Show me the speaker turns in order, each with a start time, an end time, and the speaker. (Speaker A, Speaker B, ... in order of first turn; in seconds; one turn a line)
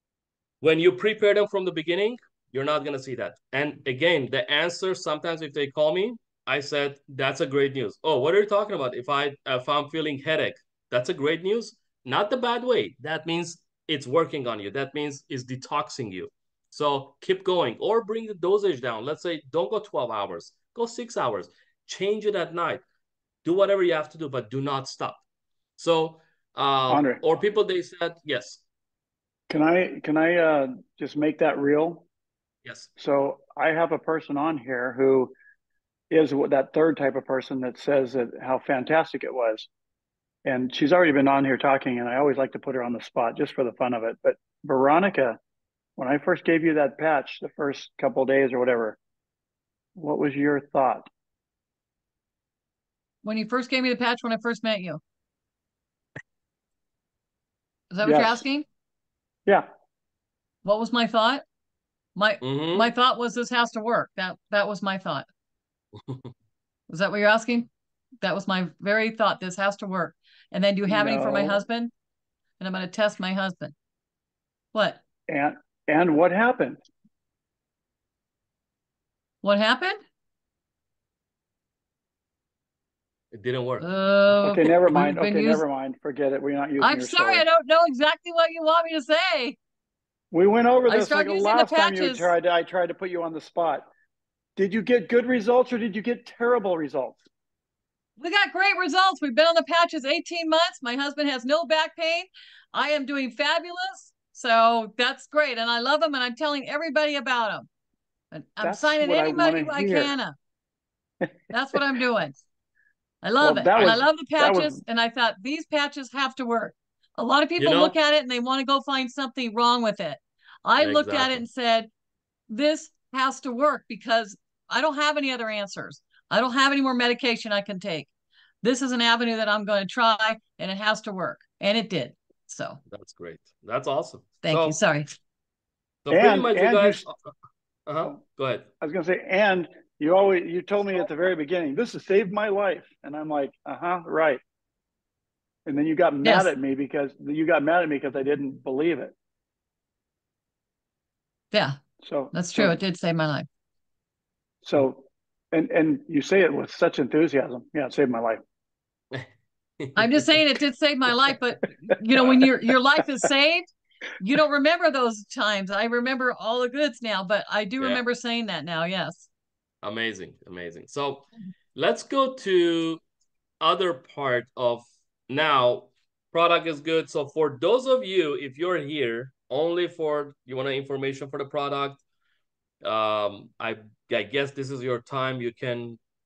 Speaker A: 0.6-22.8
Speaker A: 23.4-25.2
Speaker A: 25.8-28.6
Speaker B: 26.9-27.2
Speaker B: 29.5-32.1
Speaker A: 32.6-32.9
Speaker B: 33.0-35.3
Speaker B: 36.1-39.7
Speaker B: 40.5-45.4
Speaker B: 46.0-49.0
Speaker B: 50.0-51.1
Speaker C: 53.2-55.0
Speaker C: 57.9-58.6
Speaker B: 58.0-58.5
Speaker C: 60.6-61.4
Speaker C: 62.2-65.3
Speaker A: 62.4-62.9
Speaker A: 66.0-66.3
Speaker C: 66.9-67.7
Speaker C: 68.2-71.9
Speaker B: 70.9-71.6
Speaker C: 72.6-73.7
Speaker C: 74.7-75.0
Speaker B: 75.3-76.8
Speaker C: 79.4-80.0
Speaker A: 83.3-83.9
Speaker C: 83.8-85.6
Speaker B: 84.4-87.5
Speaker C: 86.8-89.6
Speaker B: 90.3-93.9
Speaker C: 90.9-92.3
Speaker B: 94.6-97.3
Speaker C: 98.2-107.7
Speaker C: 108.3-110.3
Speaker B: 108.6-110.2
Speaker B: 111.2-111.8
Speaker C: 111.5-112.3
Speaker C: 113.2-121.9
Speaker B: 113.4-114.8
Speaker A: 113.8-114.0
Speaker A: 117.6-118.0
Speaker A: 120.8-121.5
Speaker C: 122.5-128.1
Speaker C: 128.6-132.8
Speaker A: 132.9-134.8
Speaker C: 134.4-135.1
Speaker A: 136.1-137.3
Speaker B: 136.1-137.1
Speaker A: 137.9-138.7
Speaker B: 138.8-144.4
Speaker B: 145.7-149.2
Speaker C: 146.2-146.5
Speaker C: 151.5-151.8
Speaker B: 152.0-152.8
Speaker C: 152.3-153.5
Speaker B: 154.6-158.4
Speaker A: 159.8-160.3
Speaker C: 160.0-163.7
Speaker C: 164.2-169.3
Speaker A: 169.8-173.0
Speaker A: 173.6-182.0
Speaker A: 182.8-186.0